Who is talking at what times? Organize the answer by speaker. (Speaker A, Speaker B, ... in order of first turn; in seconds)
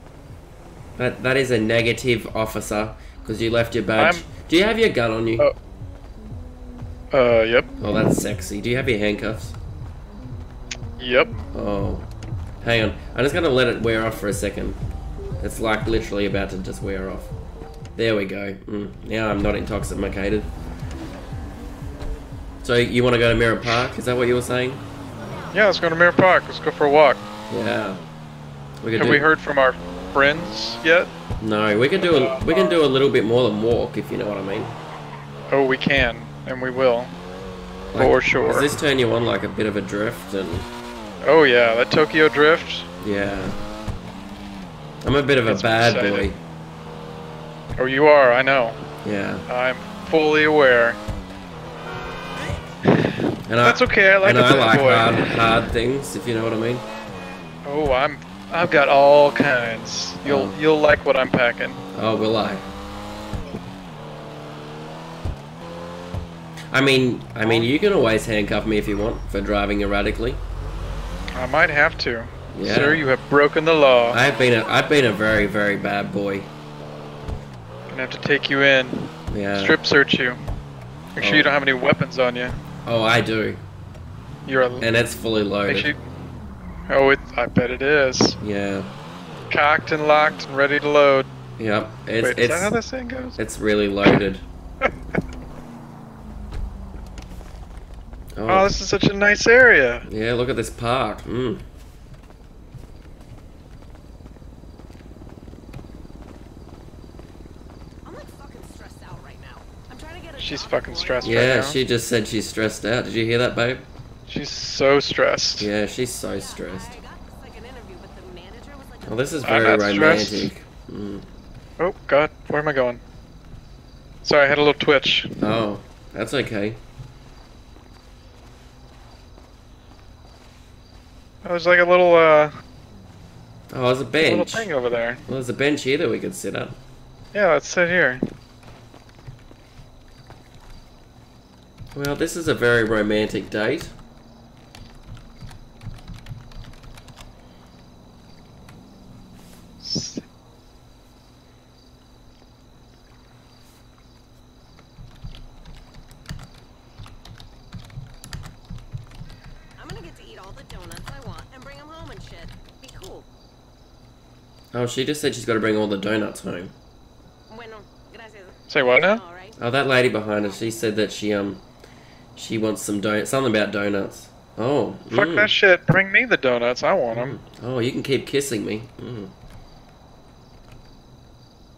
Speaker A: 1.0-5.5, 7.8-9.6, 11.5-12.1, 12.6-14.8, 15.4-17.3, 17.9-20.5, 22.6-24.8, 27.5-28.0, 28.8-29.2, 31.4-34.8, 37.9-40.7, 43.0-43.6, 45.0-46.4, 49.0-49.4, 53.5-56.8, 60.2-60.6, 61.9-62.7, 66.7-70.4, 72.5-73.0, 74.1-76.5, 79.3-79.8, 81.2-81.5, 82.8-83.6, 84.8-85.9, 88.4-88.9, 91.6-92.8, 93.4-94.4, 98.3-98.7, 100.0-101.6, 111.2-113.8, 115.6-116.9, 119.0-121.3, 125.4-126.8, 133.7-134.7, 135.3-136.8, 141.9-143.9, 164.7-166.7, 169.6-171.6, 172.3-175.5, 177.1-179.3
Speaker B: 4.0-4.2, 7.1-7.7, 11.0-11.4, 25.5-27.2, 29.0-31.1, 32.0-32.8, 35.5-37.1, 38.0-38.7, 41.2-42.9, 45.5-46.3, 47.8-48.9, 49.5-51.0, 52.8-55.7, 57.6-61.8, 67.4-67.7, 71.3-74.2, 77.9-80.4, 81.2-82.6, 84.5-84.9, 85.7-86.0, 86.9-88.4, 89.5-91.2, 92.2-93.4, 94.8-95.2, 98.5-100.1, 110.4-111.8, 114.3-115.7, 119.4-120.5, 121.8-123.0, 124.2-125.4, 131.4-132.5, 134.2-135.2, 137.3-138.2, 149.8-150.2, 168.7-169.2, 175.1-177.4
Speaker C: 108.0-111.5, 116.3-119.6, 159.8-163.2, 167.5-169.6